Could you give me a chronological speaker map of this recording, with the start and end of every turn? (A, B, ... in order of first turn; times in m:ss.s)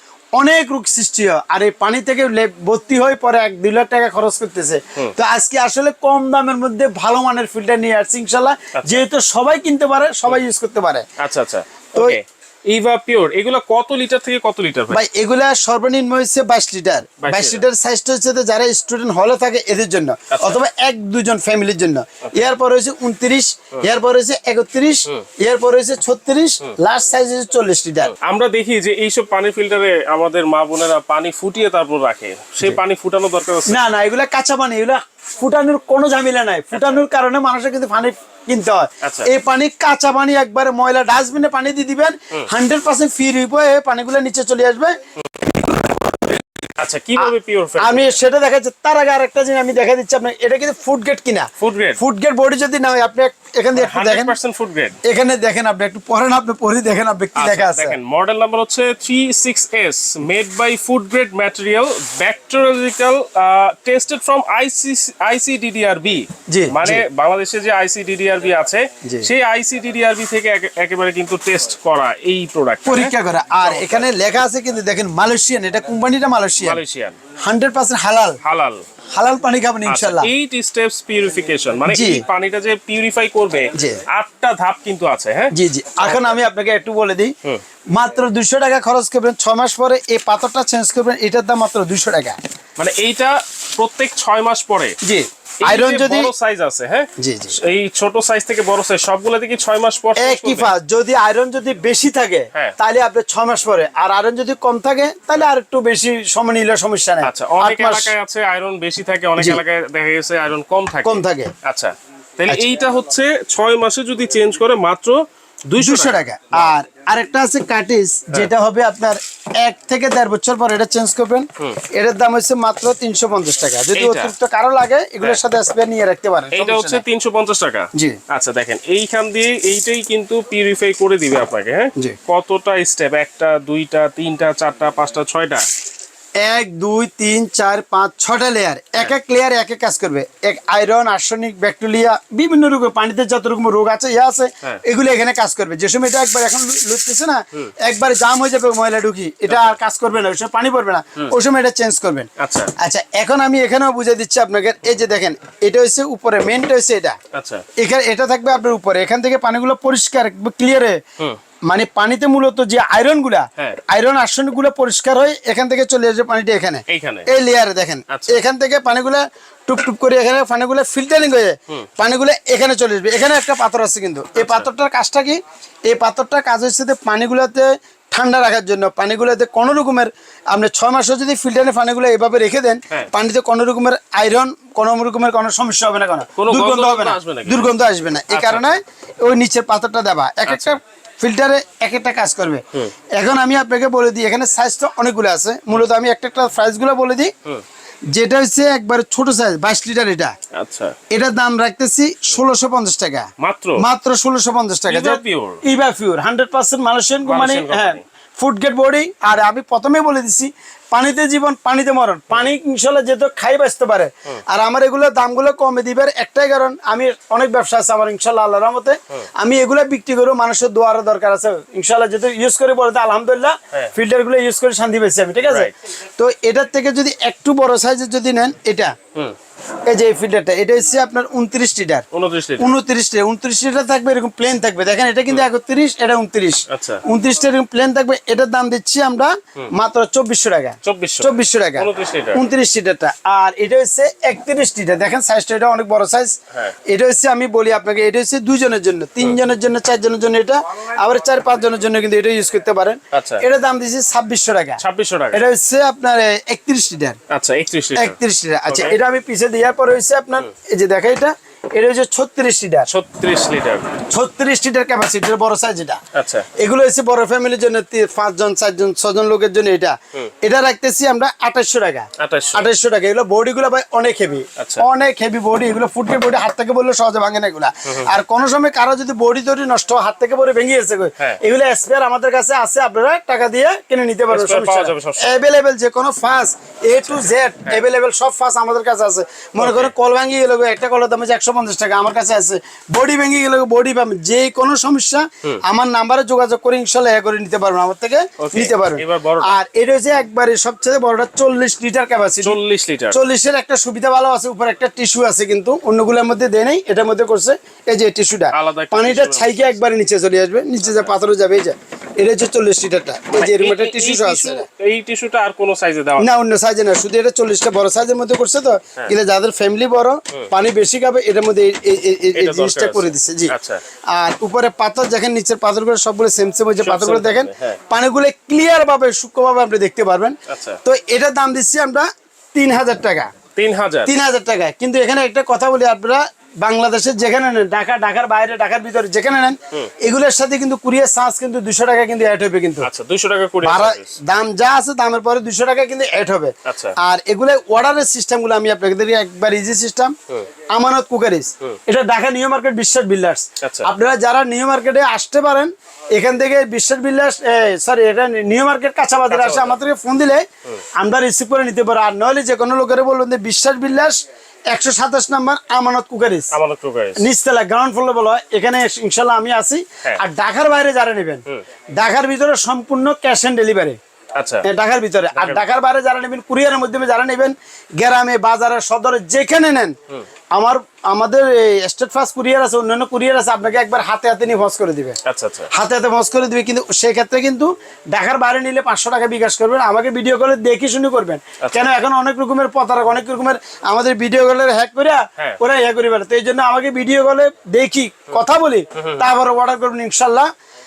0:00.4-0:11.0 A
0:08.8-0:09.0 B
0:11.2-0:15.0 B
0:14.9-0:28.1 A
0:17.2-0:17.6 B
0:20.3-0:20.6 B
0:28.0-0:33.8 B
0:33.7-0:45.0 A
0:39.0-0:39.3 B
0:45.5-0:46.4 A
0:46.8-0:48.2 B
0:47.2-0:54.3 A
0:51.6-0:52.0 B
0:53.7-0:55.0 B
0:55.0-0:58.0 A
0:57.3-1:14.1 B
1:06.5-1:07.0 A
1:09.0-1:09.3 A
1:12.8-1:16.8 A
1:16.6-1:17.2 B
1:17.4-1:18.4 A
1:18.4-1:18.8 B
1:19.1-1:20.3 A
1:19.8-1:26.4 B
1:21.9-1:22.2 A
1:23.7-1:24.0 A
1:25.5-1:27.3 A
1:27.9-1:32.4 A
1:32.8-1:35.0 B
1:35.0-1:36.3 A
1:35.6-1:40.7 B
1:37.2-1:37.6 A
1:40.2-1:48.1 A
1:47.2-1:56.7 B
1:51.0-1:51.5 A
1:55.8-2:07.0 A
2:03.9-2:04.3 B
2:06.5-2:15.7 B
2:07.9-2:08.2 A
2:16.4-2:37.2 A
2:29.5-2:29.7 B
2:32.4-2:32.7 B
2:37.3-2:37.6 B
2:37.8-2:41.0 A
2:41.6-3:12.6 A
2:46.9-2:47.3 B
2:48.1-2:48.4 B
2:54.4-2:54.7 B
3:06.4-3:07.7 B
3:08.3-3:08.8 B
3:10.4-3:10.8 B
3:13.1-3:17.3 A
3:18.1-3:20.3 A
3:20.5-3:20.9 B
3:21.1-3:48.9 A
3:23.4-3:23.8 B
3:24.9-3:25.6 B
3:27.2-3:28.0 B
3:45.4-3:45.7 B
3:49.9-3:52.0 A
3:52.1-3:52.7 B
3:52.6-4:14.8 A
3:56.7-3:57.0 B
4:00.8-4:02.4 B
4:13.1-4:13.4 B
4:14.8-4:15.4 B
4:15.3-4:17.2 A
4:17.3-4:19.0 B
4:17.9-4:22.9 A
4:22.9-4:24.0 B
4:24.1-4:26.0 A
4:26.1-4:26.5 B
4:26.5-5:02.6 A
4:32.2-4:32.7 B
4:34.6-4:34.8 B
4:37.8-4:38.1 B
4:44.3-4:45.4 B
4:47.0-4:47.8 B
4:49.6-4:49.9 B
4:58.4-4:59.5 B
5:02.4-5:03.2 B
5:03.1-5:14.6 A
5:08.5-5:09.8 B
5:10.8-5:11.1 B
5:13.4-5:16.3 B
5:16.2-5:23.5 A
5:22.3-5:23.8 B
5:24.1-5:33.3 A
5:26.8-5:27.8 B
5:30.5-5:30.8 B
5:33.6-5:34.1 B
5:34.0-5:42.9 A
5:42.8-5:44.2 B
5:43.6-5:50.1 A
5:46.6-5:47.0 B
5:50.7-6:00.4 A
5:53.6-5:53.9 B
5:59.3-5:59.8 B
6:01.0-6:04.2 A
6:04.7-6:06.5 A
6:06.5-6:07.2 B
6:07.2-6:11.4 A
6:12.0-6:14.0 A
6:14.4-6:14.7 B
6:14.6-6:20.0 A
6:15.3-6:15.6 B
6:20.5-6:25.2 A
6:25.2-6:25.7 B
6:25.7-6:40.5 A
6:31.6-6:31.9 B
6:38.9-6:39.3 B